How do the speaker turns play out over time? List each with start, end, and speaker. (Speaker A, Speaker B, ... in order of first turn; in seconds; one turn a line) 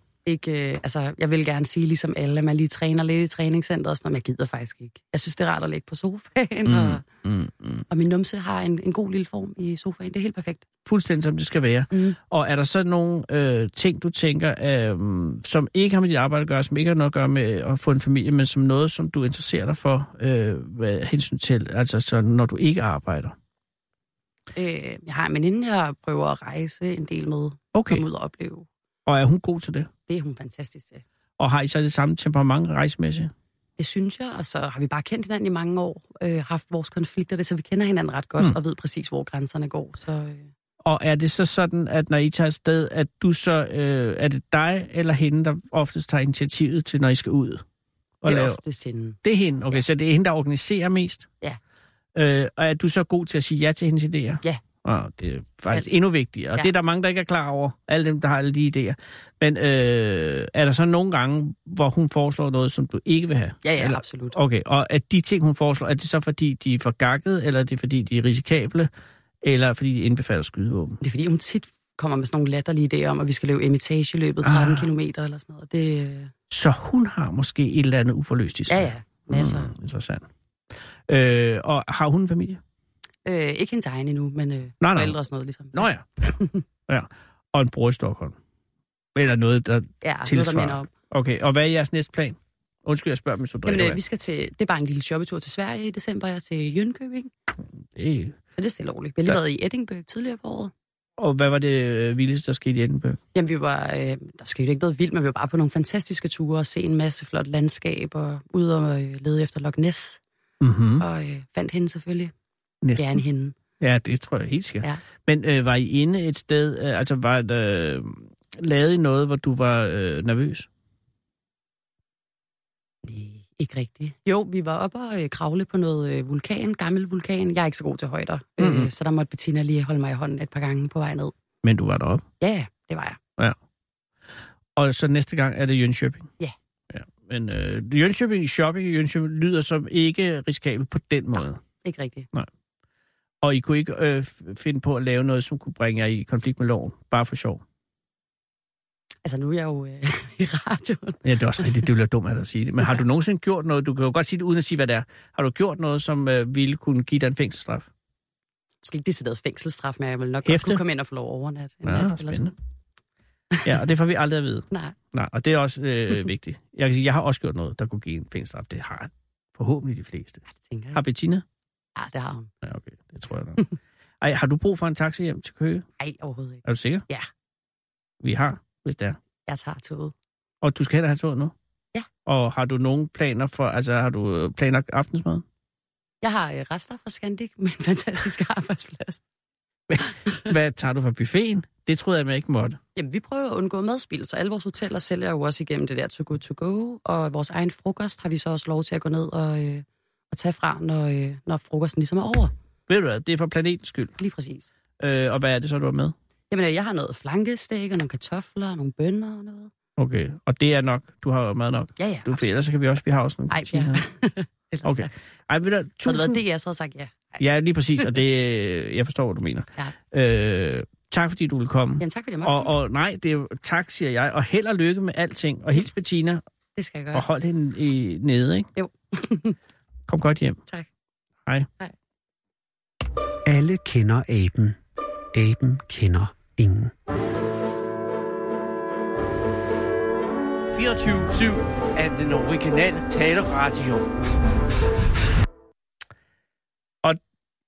Speaker A: 0.3-7.0
Speaker B: 6.7-7.8
Speaker A: 7.9-10.6
Speaker B: 10.9-23.4
Speaker A: 11.9-12.2
Speaker A: 24.6-28.7
Speaker B: 27.7-28.0
Speaker B: 29.1-29.9
Speaker A: 30.1-31.0
Speaker B: 31.4-33.3
Speaker A: 33.8-40.5
Speaker B: 40.9-47.6
Speaker B: 48.2-48.6
Speaker A: 48.3-49.2
Speaker B: 49.2-51.3
Speaker B: 52.1-68.9
Speaker A: 63.6-64.4
Speaker B: 69.4-71.0
Speaker A: 71.0-76.3
Speaker B: 74.4-74.9
Speaker B: 76.5-80.2
Speaker A: 78.7-79.7
Speaker B: 81.1-82.6
Speaker A: 83.2-86.6
Speaker B: 84.8-85.2
Speaker B: 85.7-86.0
Speaker B: 86.9-88.4
Speaker B: 89.2-94.0
Speaker A: 90.0-90.9
Speaker A: 93.7-97.3
Speaker B: 98.0-98.4
Speaker A: 98.6-100.7
Speaker B: 101.2-103.2
Speaker A: 103.3-110.2
Speaker B: 110.6-111.0
Speaker A: 111.0-112.3
Speaker B: 112.8-113.2
Speaker A: 113.0-113.5
Speaker B: 113.8-120.7
Speaker A: 123.0-131.3
Speaker B: 128.6-128.9
Speaker B: 131.6-132.2
Speaker A: 132.4-133.2
Speaker B: 134.8-136.3
Speaker B: 136.9-141.6
Speaker A: 141.8-142.3
Speaker B: 143.4-147.6
Speaker A: 149.2-151.8
Speaker B: 151.2-157.9
Speaker A: 158.8-162.5
Speaker B: 160.4-160.8
Speaker B: 161.8-162.5
Speaker B: 163.6-170.4
Speaker A: 170.5-171.0
Speaker B: 170.9-171.4
Speaker A: 172.0-172.5
Speaker B: 172.6-173.6
Speaker B: 174.2-175.9
Speaker A: 176.0-177.3
Speaker B: 176.7-177.0
Speaker B: 178.2-179.2
Speaker A: 179.5-180.1
Speaker B: 180.6-181.5
Speaker B: 182.2-185.4
Speaker A: 186.2-189.2
Speaker B: 189.9-192.8
Speaker A: 193.0-202.5
Speaker B: 202.9-204.2
Speaker A: 204.2-204.7
Speaker B: 205.0-206.1
Speaker A: 206.5-209.7
Speaker B: 210.0-214.0
Speaker A: 212.0-212.5
Speaker A: 213.5-215.1
Speaker B: 214.8-216.4
Speaker A: 216.1-217.4
Speaker B: 217.4-226.4
Speaker A: 222.0-222.7
Speaker A: 226.8-227.2
Speaker B: 227.1-228.7
Speaker A: 228.8-229.6
Speaker B: 230.1-230.6
Speaker C: 233.5-234.8
Speaker C: 235.3-236.9
Speaker D: 240.7-244.1